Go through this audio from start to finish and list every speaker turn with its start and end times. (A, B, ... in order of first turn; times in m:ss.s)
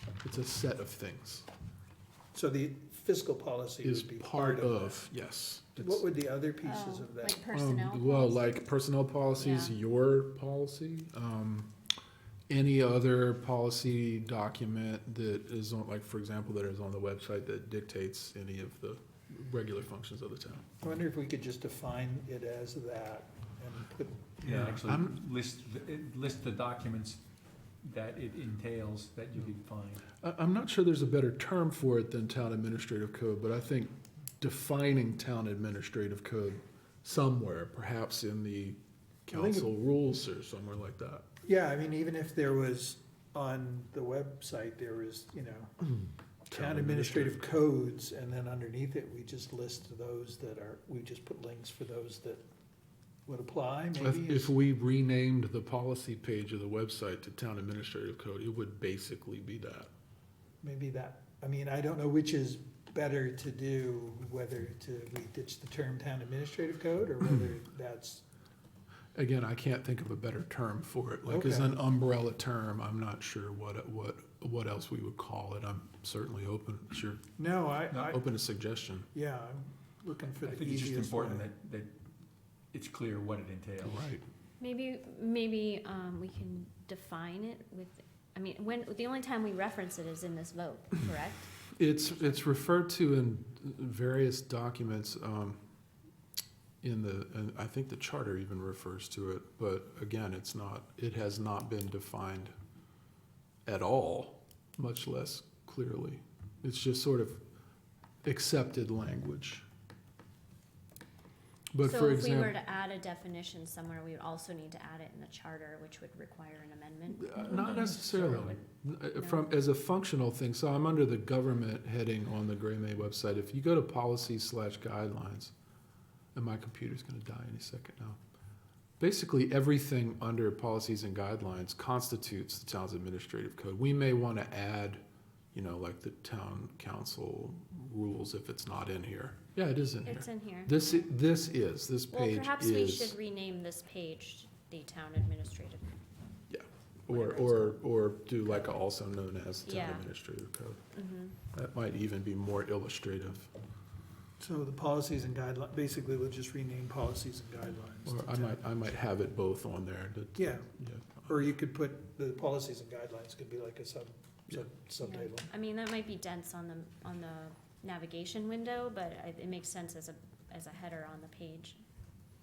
0:00.2-0:01.5 A
0:02.3-0:05.1 B
0:03.8-0:06.0 A
0:05.8-0:07.4 B
0:06.6-0:08.7 C
0:07.5-0:11.7 A
0:09.4-0:09.8 C
0:12.5-0:20.6 A
0:20.8-0:24.5 B
0:24.4-0:27.2 D
0:24.5-0:25.1 A
0:27.8-0:30.1 D
0:30.2-0:41.3 A
0:39.3-0:39.7 B
0:41.4-0:45.7 B
0:46.5-0:52.4 B
0:46.5-0:47.4 A
0:53.3-0:54.5 B
0:54.0-0:59.9 A
1:00.6-1:08.2 B
1:09.2-1:17.3 A
1:11.3-1:11.8 B
1:17.4-1:18.3 B
1:18.0-1:19.1 A
1:19.1-1:21.5 B
1:20.4-1:22.0 D
1:22.7-1:24.1 D
1:23.8-1:24.2 A
1:24.6-1:31.7 C
1:31.7-1:35.6 A
1:36.8-1:42.5 A
1:43.7-1:47.4 A
1:48.2-1:49.6 A
1:51.7-1:52.6 A
1:51.8-1:58.6 C
1:57.2-2:05.5 A
1:57.5-1:58.6 D
1:59.2-1:59.4 C
2:06.4-2:08.2 A
2:09.0-2:15.0 A
2:15.5-2:23.2 A
2:20.0-2:20.9 C
2:22.1-2:25.8 C
2:26.5-2:30.8 A
2:27.1-2:27.8 C
2:29.6-2:30.1 C
2:30.9-2:31.4 C
2:31.5-2:33.5 A
2:34.4-2:38.6 B
2:38.1-2:41.3 A
2:40.4-2:40.7 B
2:41.2-2:45.5 B
2:45.0-2:51.8 C